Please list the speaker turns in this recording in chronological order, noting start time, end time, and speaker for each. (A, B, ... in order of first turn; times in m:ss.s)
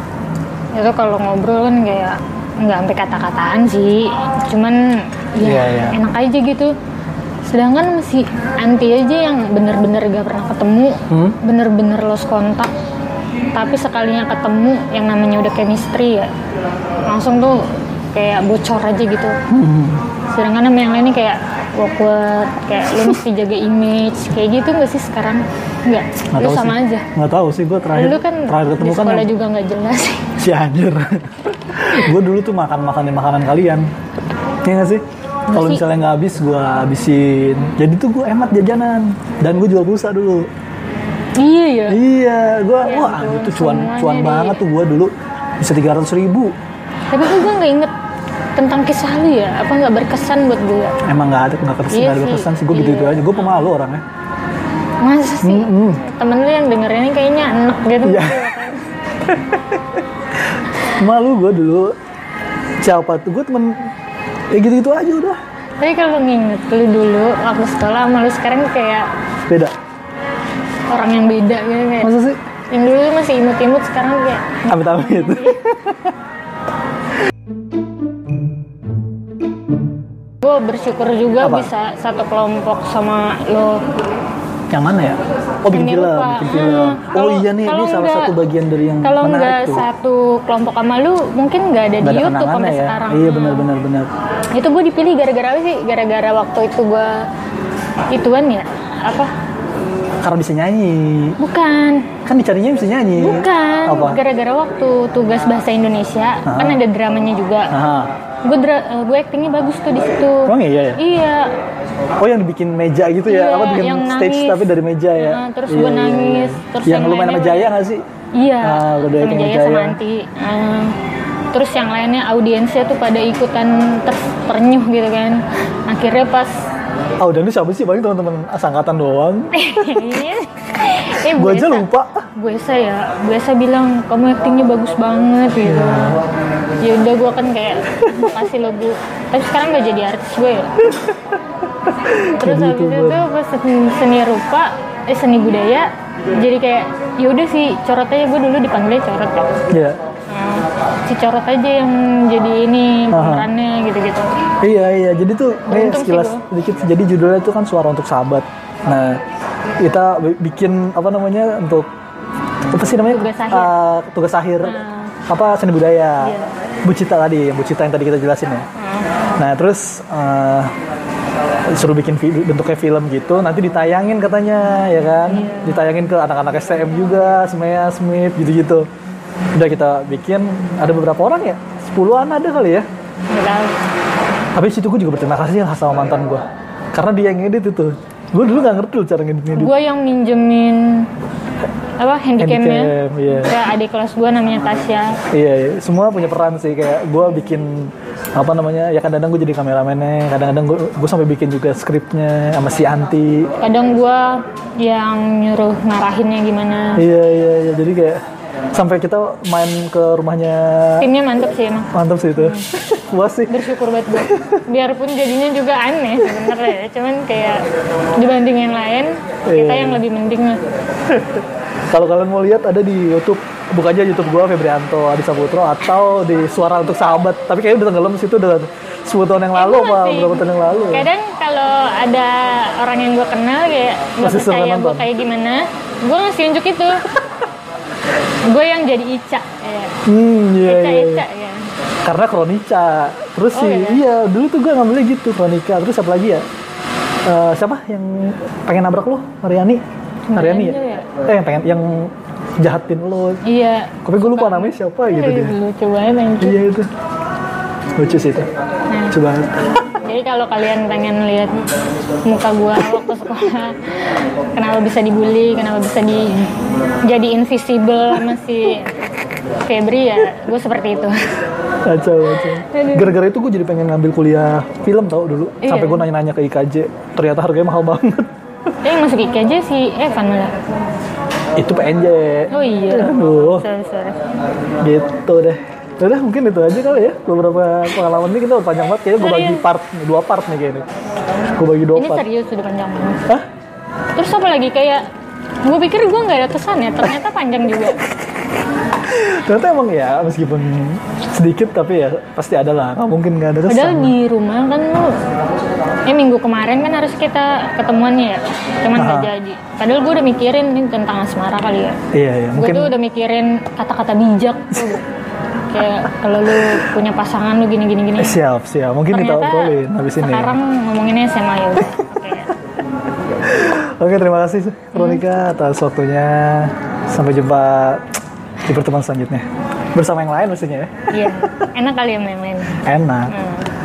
0:00.7-0:06.7 A
0:05.4-0:06.0 B
0:07.5-0:12.7 A
0:11.1-0:11.4 B
0:13.5-0:16.3 A
0:17.0-0:17.6 A
0:18.1-0:19.4 A
0:19.5-0:20.0 B
0:20.3-0:27.0 A
0:26.3-0:29.3 B
0:27.9-0:30.2 A
0:30.4-0:33.9 B
0:34.6-0:40.5 B
0:35.5-0:35.8 A
0:41.4-0:42.0 A
0:41.9-0:46.5 B
0:42.8-0:44.6 A
0:47.1-0:47.9 A
0:48.6-0:51.0 A
0:51.0-0:54.0 B
0:51.9-0:53.7 A
0:55.0-0:58.8 A
0:55.4-0:56.0 B
0:58.0-0:58.5 B
0:59.3-1:00.0 B
1:00.9-1:01.9 B
1:02.8-1:03.9 B
1:04.5-1:05.4 B
1:05.8-1:09.1 A
1:09.5-1:09.7 B
1:10.9-1:12.1 A
1:12.0-1:12.4 B
1:12.7-1:15.6 A
1:14.7-1:16.1 B
1:20.4-1:23.8 A
1:21.4-1:21.7 B
1:24.7-1:29.9 B
1:25.7-1:28.3 A
1:29.0-1:33.7 A
1:32.0-1:34.1 B
1:34.5-1:37.2 A
1:38.1-1:39.3 A
1:40.2-1:41.4 B
1:41.4-1:42.1 A
1:42.2-1:44.2 B
1:43.2-1:47.7 A
1:46.4-1:46.8 B
1:47.7-1:48.1 B
1:48.4-1:51.5 A
1:50.4-1:51.0 B
1:52.2-1:58.0 B
1:53.3-1:57.8 A
1:58.4-2:00.9 A
1:58.6-2:00.0 B
2:01.5-2:06.6 A
2:07.2-2:10.2 B
2:09.5-2:16.2 A
2:11.2-2:12.2 B
2:15.6-2:16.2 B
2:16.8-2:20.8 A
2:21.9-2:23.2 B
2:22.2-2:29.5 A
2:29.7-2:30.0 B
2:30.3-2:34.4 A
2:33.1-2:33.5 B
2:34.6-2:39.2 B
2:35.7-2:36.4 A
2:39.8-2:41.9 B
2:42.7-2:48.6 B
2:43.1-2:43.7 A
2:44.6-2:45.1 A
2:46.2-2:46.5 A
2:48.8-2:49.4 A
2:49.4-2:50.7 B
2:51.6-2:58.9 B
2:55.3-2:55.8 A
2:59.6-3:02.8 B
3:03.3-3:03.8 A
3:04.5-3:09.7 B
3:09.5-3:11.1 A
3:12.0-3:15.2 A
3:12.4-3:13.6 B
3:15.3-3:23.5 B
3:23.6-3:27.0 A
3:27.0-3:28.2 B
3:28.7-3:31.1 B
3:31.0-3:32.7 A
3:31.9-3:33.6 B
3:33.5-3:37.6 A
3:34.1-3:34.6 B
3:38.2-3:40.6 A
3:39.5-3:40.0 B
3:41.1-3:51.1 B
3:49.5-3:57.0 A
3:54.2-3:55.1 B
3:58.5-3:59.9 A
4:00.0-4:01.2 B
4:00.6-4:01.7 A
4:02.0-4:06.4 B
4:03.5-4:04.0 A
4:07.2-4:09.8 B
4:10.3-4:11.1 A
4:10.3-4:13.4 B
4:13.4-4:16.6 A
4:14.0-4:15.6 B
4:16.4-4:16.9 B
4:18.0-4:18.5 B
4:18.9-4:19.2 A
4:19.1-4:19.6 B
4:20.0-4:21.5 A
4:22.2-4:26.5 A
4:27.0-4:28.9 A
4:29.6-4:31.1 A
4:31.8-4:38.3 B
4:32.4-4:33.1 A
4:35.6-4:36.0 A
4:38.8-4:40.5 A
4:41.5-4:43.7 B
4:42.5-4:44.2 A
4:44.8-4:50.8 B
4:49.2-4:49.6 A
4:51.6-4:52.2 B
4:51.9-4:53.2 A
4:54.1-4:55.0 A
4:55.6-4:58.0 A
4:59.0-5:04.2 B
5:03.7-5:05.1 A
5:06.1-5:12.0 A
5:08.9-5:09.3 B
5:12.1-5:13.0 B
5:12.6-5:15.0 A
5:14.7-5:15.0 B
5:15.7-5:18.4 A
5:16.4-5:16.8 B
5:18.2-5:20.6 B
5:19.1-5:22.5 A
5:23.4-5:28.0 B
5:24.9-5:25.2 A
5:28.6-5:31.5 B
5:31.1-5:32.8 A
5:32.8-5:33.3 B
5:33.3-5:33.7 A